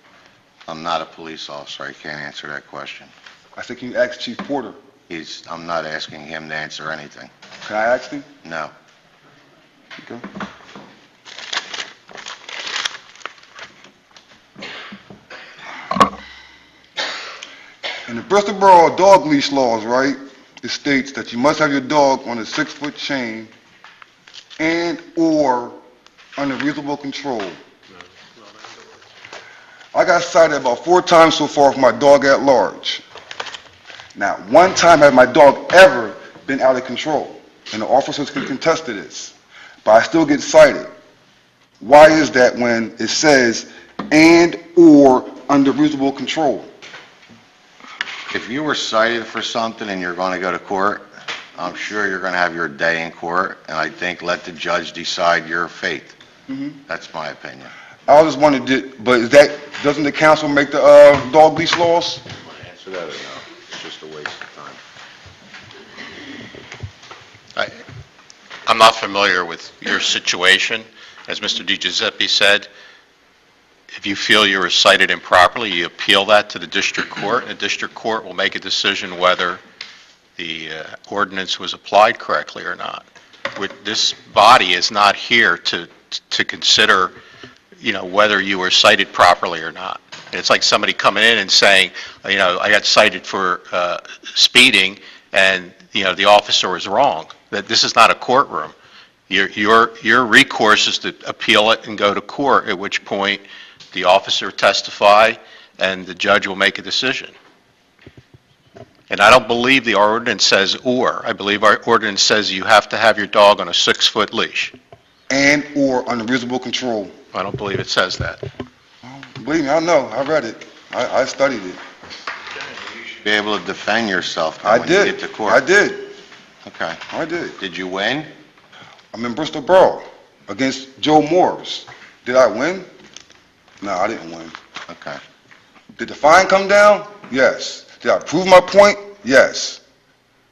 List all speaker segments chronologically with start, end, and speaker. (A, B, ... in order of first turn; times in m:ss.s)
0:00.6-0:03.1 A
0:03.6-0:04.8 B
0:05.1-0:07.3 A
0:07.6-0:08.3 B
0:08.4-0:08.7 A
0:18.1-0:23.5 B
0:24.6-0:25.8 B
0:26.4-0:27.6 B
0:29.9-0:33.0 B
0:34.2-0:40.9 B
0:41.8-0:46.7 B
0:48.3-0:56.2 A
0:56.9-0:57.7 A
0:58.1-1:02.2 B
1:02.4-1:04.8 A
1:08.6-1:12.7 C
1:13.9-1:19.6 C
1:20.4-1:27.1 C
1:27.8-1:38.7 C
1:39.3-1:47.3 C
1:49.1-1:54.7 C
1:55.3-1:57.1 B
1:57.3-1:58.4 C
1:59.0-2:01.8 B
2:03.1-2:05.6 A
2:04.6-2:06.1 B
2:06.6-2:07.0 A
2:07.1-2:07.6 B
2:07.6-2:08.3 A
2:09.1-2:12.9 B
2:13.8-2:14.5 B
2:14.9-2:15.2 A
2:16.0-2:19.8 B